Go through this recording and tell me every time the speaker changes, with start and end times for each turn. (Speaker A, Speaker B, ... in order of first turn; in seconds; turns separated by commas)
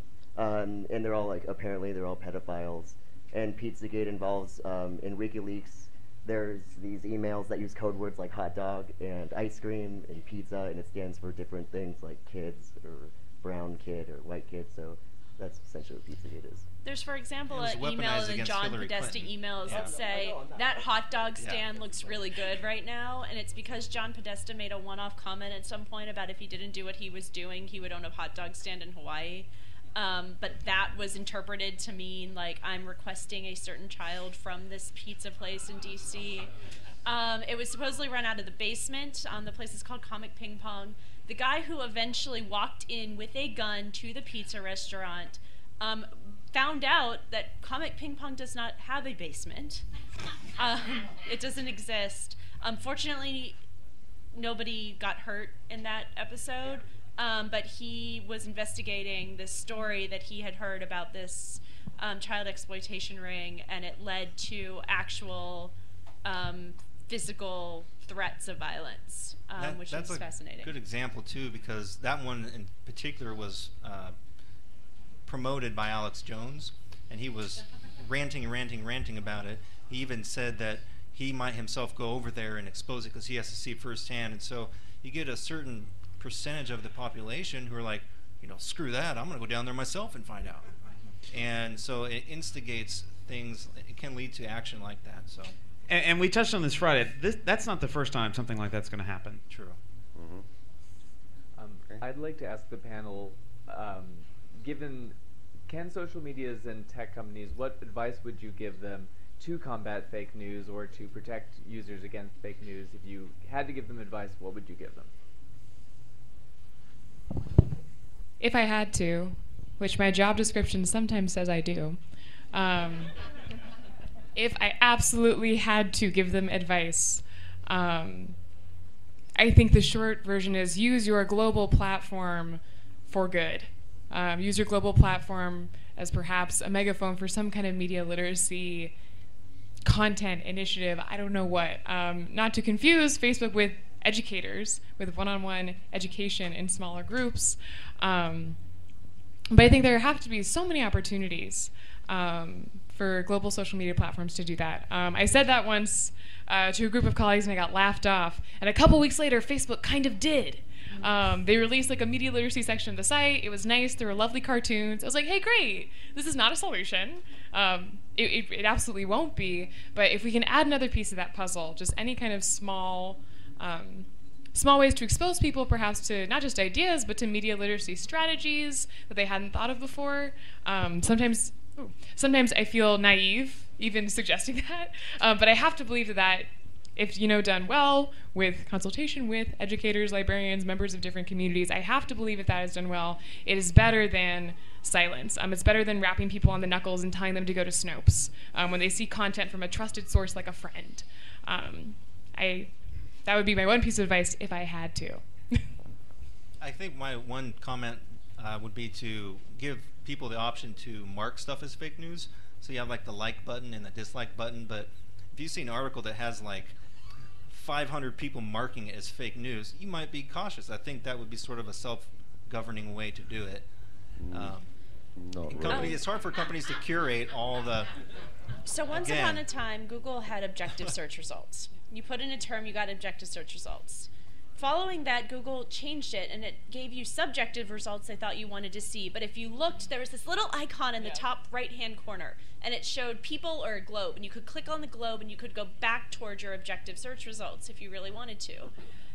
Speaker A: 0.3-16.6, Speaker B: 16.8-36.5, Speaker C: 17.5-20.0, Speaker D: 19.7-20.7, Speaker C: 21.4-21.6, Speaker B: 37.0-49.8, Speaker B: 50.5-53.6, Speaker B: 54.3-65.7, Speaker B: 66.2-70.7, Speaker C: 69.5-74.1, Speaker C: 75.3-90.7, Speaker C: 91.3-95.5, Speaker E: 95.9-99.4, Speaker C: 99.5-99.8, Speaker D: 100.1-100.4, Speaker F: 101.7-105.1, Speaker F: 105.7-112.3, Speaker F: 113.0-115.1, Speaker G: 118.4-122.0, Speaker G: 122.5-123.1, Speaker G: 124.3-128.3, Speaker G: 129.3-138.9, Speaker G: 139.8-148.6, Speaker G: 149.5-202.7, Speaker G: 203.2-205.6, Speaker C: 206.6-216.7, Speaker C: 217.5-223.7, Speaker D: 224.2-224.6, Speaker C: 224.3-224.7, Speaker D: 225.2-226.0, Speaker C: 225.4-227.9, Speaker B: 225.7-226.0, Speaker B: 228.6-248.7, Speaker C: 228.9-229.4